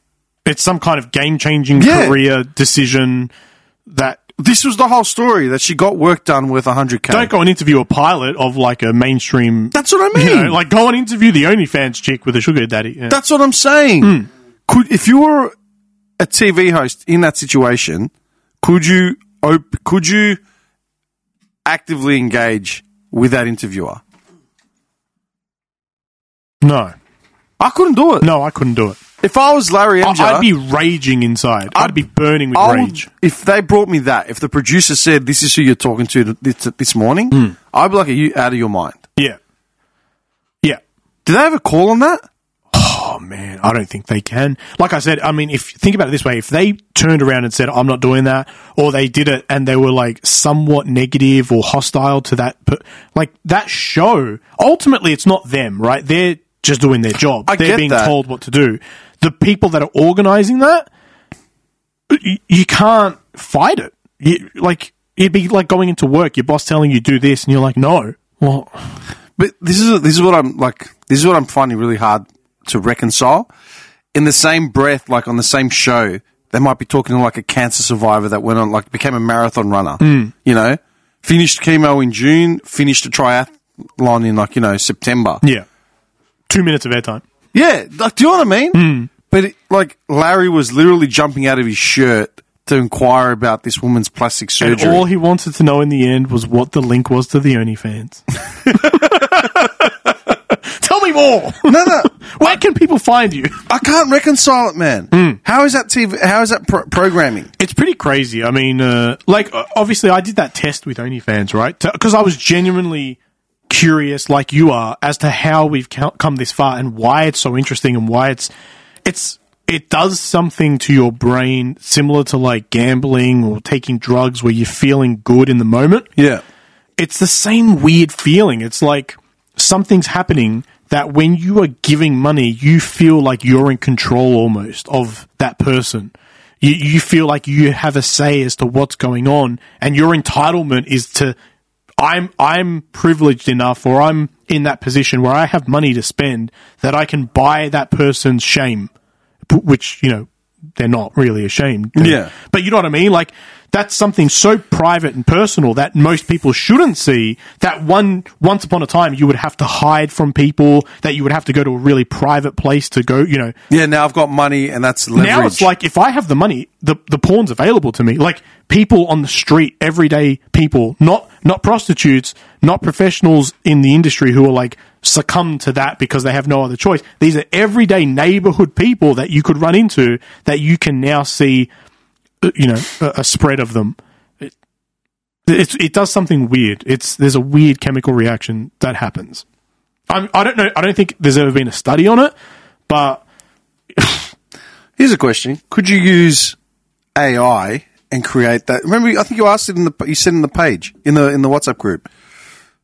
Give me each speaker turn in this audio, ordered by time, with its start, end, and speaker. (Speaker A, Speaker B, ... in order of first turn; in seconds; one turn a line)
Speaker A: 0.5-3.3
Speaker B: 1.8-2.2
Speaker A: 3.9-4.2
Speaker B: 4.4-7.3
Speaker A: 7.1-13.2
Speaker B: 9.7-10.6
Speaker B: 13.1-14.2
Speaker A: 14.0-14.3
Speaker B: 14.7-15.5
Speaker B: 16.2-20.4
Speaker B: 21.6-24.0
Speaker A: 26.6-26.9
Speaker B: 27.6-28.3
Speaker A: 28.2-29.0
Speaker B: 29.2-30.5
Speaker A: 30.0-33.1
Speaker B: 31.7-39.0
Speaker B: 41.2-42.2
Speaker A: 42.7-60.9
Speaker B: 57.5-58.1
Speaker A: 62.1-68.8
Speaker B: 69.4-73.5
Speaker B: 74.1-85.4
Speaker A: 80.0-80.3
Speaker A: 86.5-87.2
Speaker B: 87.5-95.0
Speaker A: 88.7-89.1
Speaker A: 94.6-99.9
Speaker A: 100.8-103.6
Speaker B: 101.6-102.5
Speaker B: 103.7-107.5
Speaker A: 105.1-105.4
Speaker A: 107.6-113.2
Speaker A: 113.7-118.5
Speaker A: 119.0-126.1
Speaker B: 126.2-126.4
Speaker A: 127.0-141.4
Speaker A: 142.0-148.9
Speaker A: 149.5-163.6
Speaker B: 151.9-152.3
Speaker B: 163.7-165.7
Speaker A: 165.2-181.7
Speaker A: 182.4-184.5
Speaker A: 185.5-189.4
Speaker A: 190.1-192.3
Speaker A: 192.9-193.2
Speaker A: 194.0-194.2
Speaker B: 195.0-196.6
Speaker B: 197.2-202.1